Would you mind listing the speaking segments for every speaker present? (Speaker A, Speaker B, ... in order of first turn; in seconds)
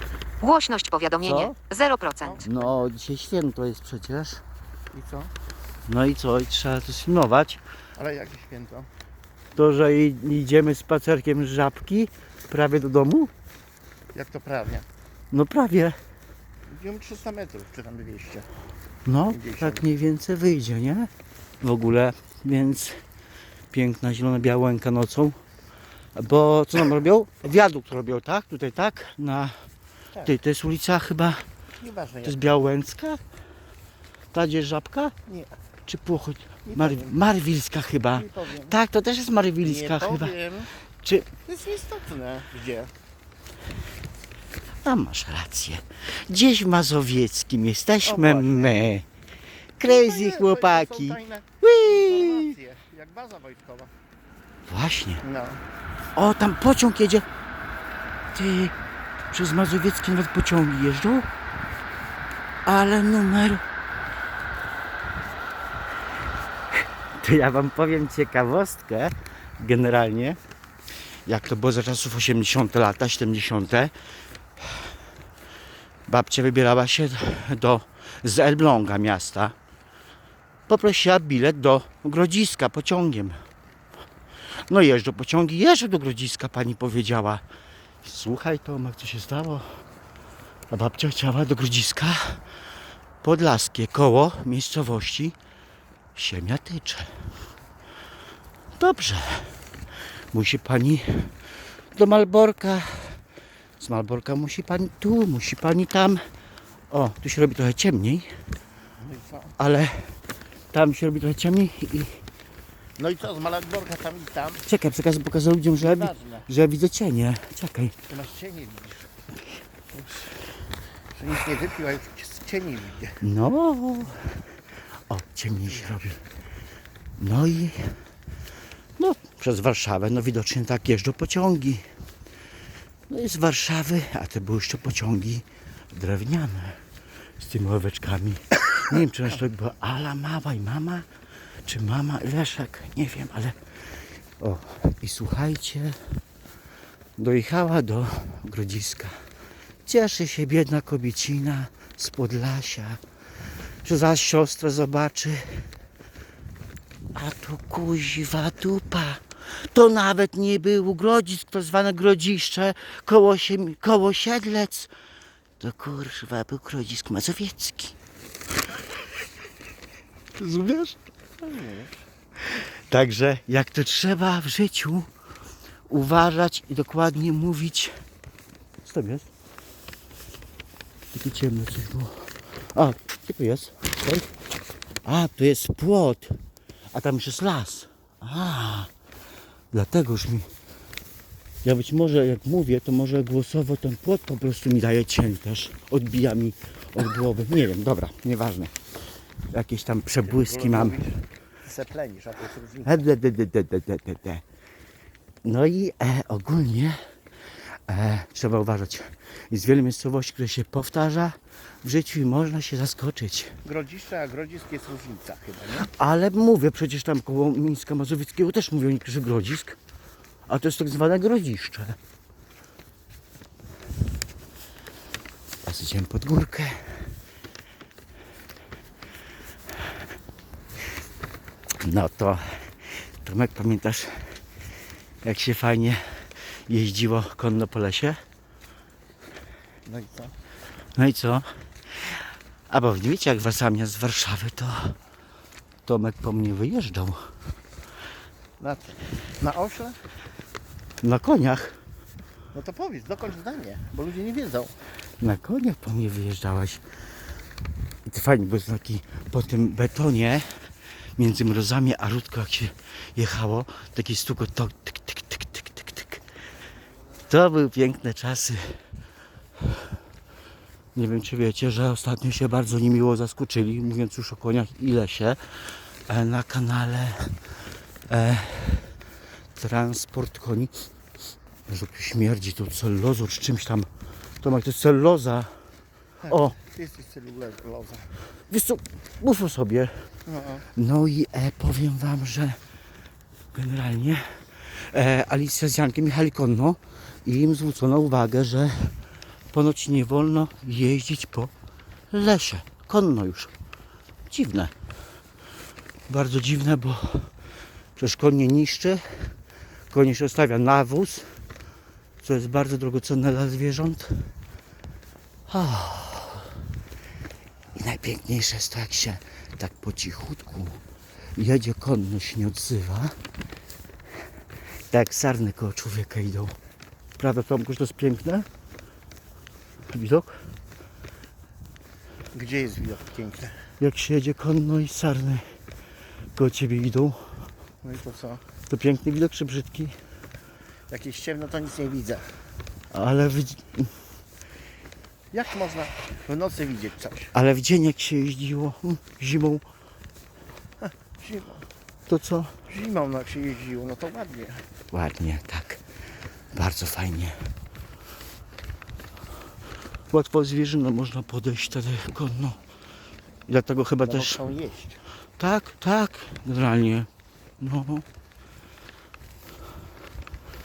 Speaker A: 0.4-2.4
Speaker B: 1.2-1.5, 2.4-4.4, 5.9-7.6, 9.5-13.3, 15.3-15.9, 19.0-21.1, 21.6-23.0, 23.7-25.4, 26.1-29.5, 30.2-31.4, 32.2-33.2, 34.3-35.1, 35.9-40.3, 41.0-41.3, 44.8-49.0, 49.8-52.5, 54.7-55.2, 56.1-57.2, 58.3-58.7, 59.3-61.3, 62.6-63.6, 67.2-70.4, 71.2-73.9, 76.1-79.5, 80.7-83.4, 84.7-87.4, 88.0-89.7, 90.7-92.4, 93.2-95.3, 96.1-97.2, 98.8-99.6, 100.3-101.3, 101.9-103.2, 103.8-106.2, 106.9-108.3, 109.6-110.2, 110.7-112.2, 114.7-117.9, 123.2-124.2, 125.1-126.2, 127.2-128.0, 129.0-131.9, 133.1-136.8, 137.4-141.1, 141.6-143.6, 144.4-146.0, 147.2-149.2, 149.8-153.0, 153.8-155.7, 157.1-164.9, 165.6-167.9, 170.4-170.9, 172.9-175.1, 175.9-177.9, 178.8-179.3, 181.1-184.3, 185.0-186.4, 186.9-188.9, 189.7-190.5, 191.6-198.7, 199.5-201.0, 202.8-204.4, 205.4-207.0, 207.9-213.5, 215.8-219.8, 220.5-222.0, 225.7-226.8, 231.8-232.6, 233.2-234.4, 235.2-236.0, 236.7-238.2, 240.9-241.5, 242.7-244.9, 245.8-247.2, 251.0-251.8, 255.2-256.8, 258.1-260.4, 261.2-266.2, 267.3-268.8, 270.9-275.4, 276.1-277.4, 278.1-279.0, 279.6-280.7, 281.7-283.9, 284.4-285.5, 286.3-286.6, 288.5-290.1, 290.7-292.6, 293.5-298.9, 299.5-301.5, 302.1-303.5, 304.3-304.7, 306.1-307.3, 307.9-309.3, 309.9-311.3, 312.2-314.3, 315.5-316.5, 317.7-320.8, 321.4-323.1, 324.9-326.5, 327.2-328.4, 329.9-330.4, 333.8-335.4, 336.4-337.2, 338.7-339.9, 342.9-343.9, 347.3-349.6, 352.1-352.5, 354.9-355.8, 356.5-357.4, 360.1-362.6, 363.5-364.4, 365.4-367.1, 367.6-368.0
Speaker C: 2.2-2.8, 4.9-5.3, 8.0-8.9, 14.1-14.8, 16.7-18.5, 19.3-19.8, 31.8-32.4, 35.3-35.5, 36.6-37.1, 38.1-38.8, 39.6-40.7, 41.4-42.9, 48.0-48.8, 49.8-53.9, 55.2-55.6, 109.0-109.5, 113.0-114.6, 115.8-116.5, 118.1-119.1, 119.9-120.3, 121.1-123.2, 125.7-126.1, 171.4-172.0, 200.2-203.1, 213.6-215.9, 239.8-240.3, 248.6-249.9, 252.5-254.7, 286.2-288.1, 290.2-290.6, 332.3-333.6, 337.8-338.4, 340.9-342.2, 345.3-347.3, 350.8-351.6, 352.7-354.6, 364.0-365.0